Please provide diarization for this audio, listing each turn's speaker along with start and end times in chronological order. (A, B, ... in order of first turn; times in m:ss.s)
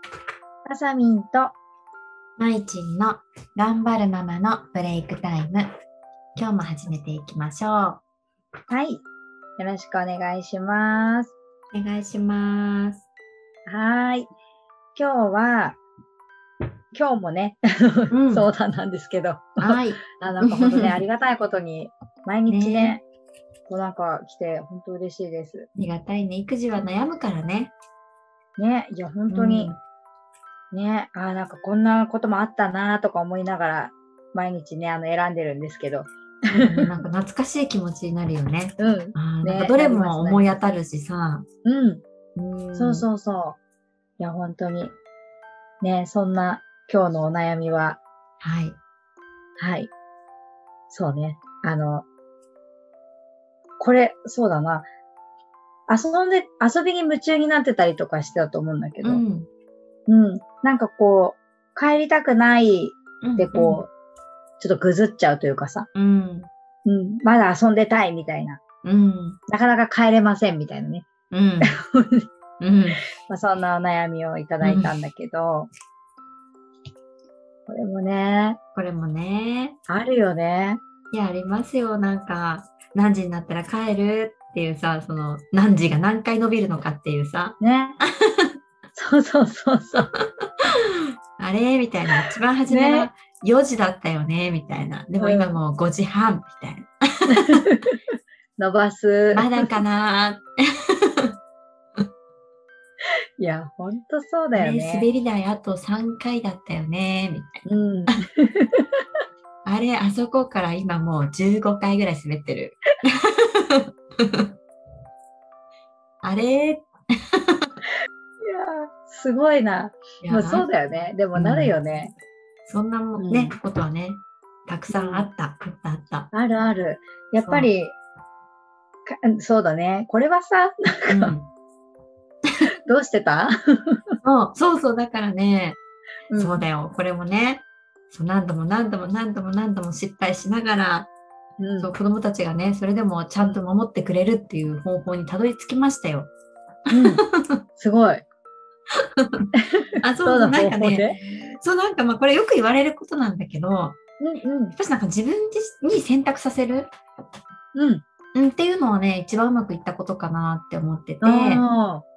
0:00.6-0:01.6 A
0:02.4-0:05.7 B
0:06.4-0:08.0 B
0:08.7-0:09.0 A
0:09.6-0:11.3 A
0:11.7-0:13.1 B
0:13.7-0:14.3 A
0:15.0-0:15.8 A
0:16.9-0:23.0 A
0:18.1-0:18.5 B
0:19.6-0:21.0 B
0:22.5-0:23.0 B
0:23.7-0:25.7 A
0:25.8-0:27.7 B
0:28.6-0:29.7 A
0:29.3-0:29.8 B
0:30.7-0:36.9 A
0:36.5-0:41.5 B
0:38.8-0:40.6 A
0:41.6-0:42.0 A
0:42.4-0:43.1 B
0:42.8-0:43.6 A
0:44.2-0:44.9 A
0:45.8-0:48.0 A
0:48.4-0:48.8 B
0:49.6-0:49.9 A
0:50.9-0:52.0 A
0:53.8-0:54.9 A
0:55.9-0:59.2 A
0:59.0-0:59.5 B
1:00.1-1:03.9 A
1:03.2-1:03.8 B
1:04.6-1:05.9 A
1:06.0-1:06.5 B
1:06.8-1:08.6 A
1:08.8-1:09.4 B
1:09.5-1:11.1 A
1:11.3-1:11.8 B
1:11.6-1:12.3 A
1:12.6-1:13.0 B
1:13.3-1:15.7 A
1:14.6-1:14.9 B
1:17.7-1:18.6 A
1:18.8-1:19.8 B
1:19.9-1:20.8 A
1:21.1-1:28.6 B
1:27.6-1:28.0 A
1:28.9-1:30.1 A
1:30.2-1:30.7 B
1:31.4-1:37.6 B
1:32.7-1:33.1 A
1:35.2-1:35.6 A
1:37.3-1:38.0 A
1:38.6-1:39.7 A
1:39.3-1:41.4 B
1:43.4-1:45.1 A
1:44.5-1:48.2 B
1:47.6-1:49.0 A
1:49.6-1:54.5 B
1:56.2-1:57.7 B
1:58.4-2:02.1 A
2:00.2-2:00.7 B
2:01.4-2:01.8 B
2:02.7-2:06.3 B
2:03.2-2:03.6 A
2:04.9-2:05.3 A
2:06.3-2:07.9 A
2:07.4-2:07.7 B
2:09.1-2:11.4 A
2:11.1-2:11.5 B
2:12.9-2:14.2 A
2:14.2-2:15.8 B
2:16.3-2:16.7 A
2:16.4-2:21.1 B
2:21.6-2:21.9 A
2:21.8-2:26.3 B
2:26.9-2:27.2 A
2:26.9-2:27.6 B
2:27.8-2:28.2 A
2:29.2-2:29.5 B
2:29.6-2:31.2 A
2:30.0-2:34.0 B
2:34.2-2:34.8 A
2:34.8-2:36.9 B
2:37.7-2:38.0 A
2:38.3-2:41.6 B
2:41.2-2:42.0 A